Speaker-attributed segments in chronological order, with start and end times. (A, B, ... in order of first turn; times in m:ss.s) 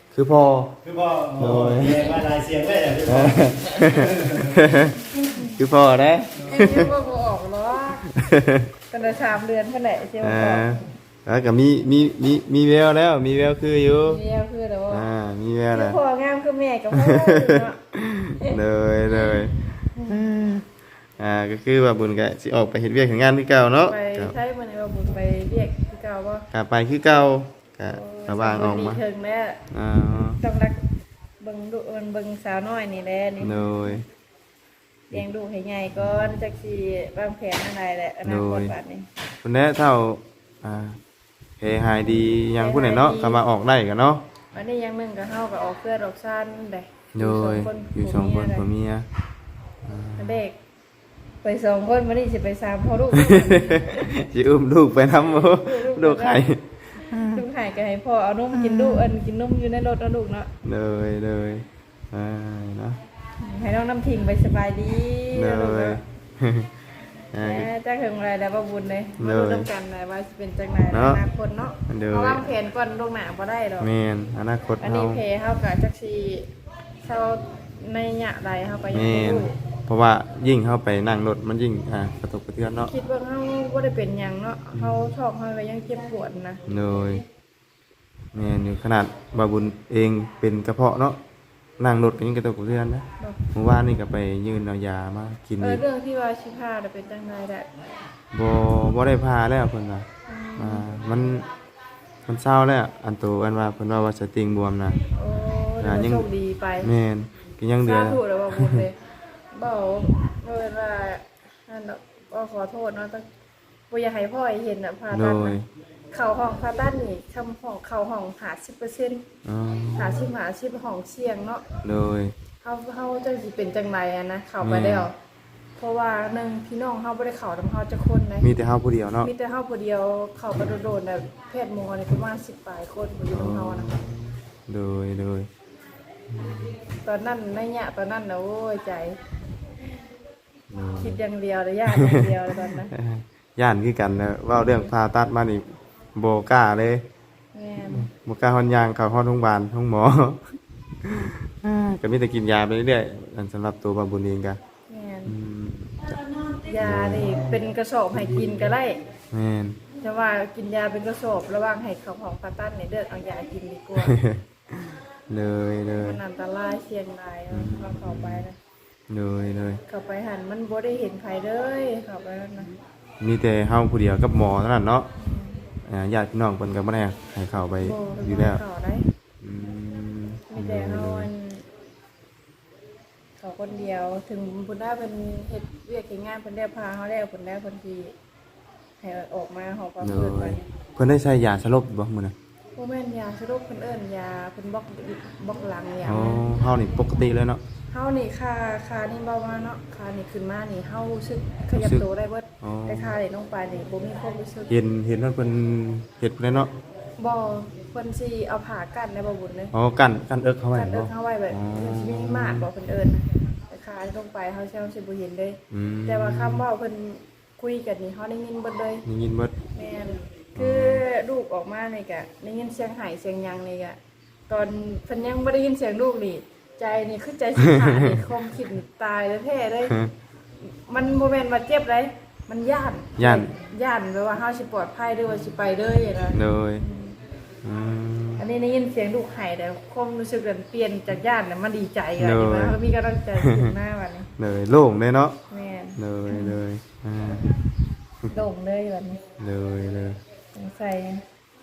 0:00.1-0:00.8 A
0:00.8-0:03.5 B
0:01.3-0:02.3 A
0:03.0-0:06.9 A
0:06.4-0:08.0 C
0:08.0-0:08.7 A
0:08.9-0:10.8 C
0:10.2-0:14.2 A
0:14.0-0:15.1 C
0:14.9-0:16.0 A
0:15.7-0:17.8 C
0:16.9-0:20.6 A
0:20.0-0:20.2 C
0:21.2-0:24.4 A
0:23.9-0:26.5 C
0:26.5-0:29.0 A
0:27.8-0:29.6 C
0:29.7-0:30.4 A
0:30.4-0:30.8 C
0:31.4-0:34.0 C
0:33.4-0:34.0 A
0:35.1-0:39.1 C
0:38.2-0:38.8 A
0:39.4-0:41.0 A
0:41.6-0:44.2 A
0:42.5-0:43.5 C
0:44.5-0:48.7 C
0:47.1-0:49.0 A
0:49.8-0:50.4 A
0:50.2-0:50.6 C
0:51.4-0:54.0 C
0:53.1-0:57.4 A
0:55.6-0:56.5 C
0:57.3-1:00.5 C
0:58.5-0:59.1 A
1:00.6-1:03.0 A
1:03.4-1:06.0 C
1:05.3-1:06.8 A
1:07.3-1:07.7 A
1:07.4-1:13.9 C
1:09.2-1:09.7 A
1:10.9-1:11.2 A
1:11.9-1:12.5 A
1:13.8-1:15.2 A
1:14.8-1:16.5 C
1:17.0-1:19.6 C
1:18.9-1:22.9 A
1:22.9-1:26.6 C
1:24.7-1:25.1 A
1:26.7-1:27.2 A
1:28.3-1:31.2 A
1:31.8-1:35.8 A
1:33.2-1:33.5 C
1:35.6-1:37.7 C
1:38.3-1:41.5 A
1:40.2-1:40.9 C
1:42.2-1:45.0 A
1:45.1-1:46.9 C
1:45.8-1:48.9 A
1:47.8-1:49.0 C
1:49.5-1:53.3 C
1:53.9-1:55.6 C
1:55.1-1:55.6 A
1:56.1-1:59.2 C
1:59.5-2:00.3 A
2:00.0-2:01.6 C
2:01.8-2:02.4 A
2:02.6-2:05.2 C
2:04.6-2:05.1 A
2:05.8-2:08.5 C
2:08.4-2:09.3 A
2:09.2-2:13.9 C
2:13.3-2:15.5 A
2:16.3-2:16.8 A
2:17.0-2:19.2 C
2:20.7-2:21.2 A
2:21.0-2:22.9 C
2:21.9-2:27.0 A
2:27.5-2:28.1 C
2:27.9-2:34.6 A
2:34.9-2:35.3 C
2:35.2-2:37.6 A
2:36.6-2:39.1 C
2:38.2-2:38.5 A
2:39.3-2:39.8 A
2:40.0-2:44.2 C
2:44.0-2:46.2 A
2:46.0-2:48.6 C
2:47.5-2:48.5 A
2:49.1-2:49.8 A
2:49.9-2:52.8 C
2:53.2-2:55.1 A
2:55.2-2:55.6 C
2:55.8-2:58.6 A
2:57.8-2:59.1 C
2:59.4-3:01.3 A
3:00.5-3:01.7 C
3:03.4-3:08.2 C
3:09.0-3:10.7 C
3:10.0-3:12.3 A
3:12.8-3:16.5 C
3:16.0-3:17.6 A
3:17.9-3:24.7 C
3:21.8-3:22.1 A
3:22.6-3:23.2 A
3:24.7-3:26.7 A
3:27.2-3:29.7 C
3:29.7-3:32.7 A
3:30.7-3:39.0 C
3:35.7-3:36.7 A
3:39.0-3:39.5 A
3:39.7-3:50.0 C
3:40.6-3:41.0 A
3:47.6-3:48.2 A
3:49.9-3:50.1 A
3:50.6-3:57.2 C
3:53.2-3:53.5 A
3:56.3-3:56.8 A
3:57.6-3:58.5 A
3:58.4-4:04.3 C
4:02.2-4:02.8 A
4:03.3-4:03.8 A
4:04.4-4:05.4 A
4:05.5-4:06.6 C
4:06.0-4:07.6 A
4:08.3-4:09.2 C
4:09.4-4:10.2 A
4:10.5-4:11.2 C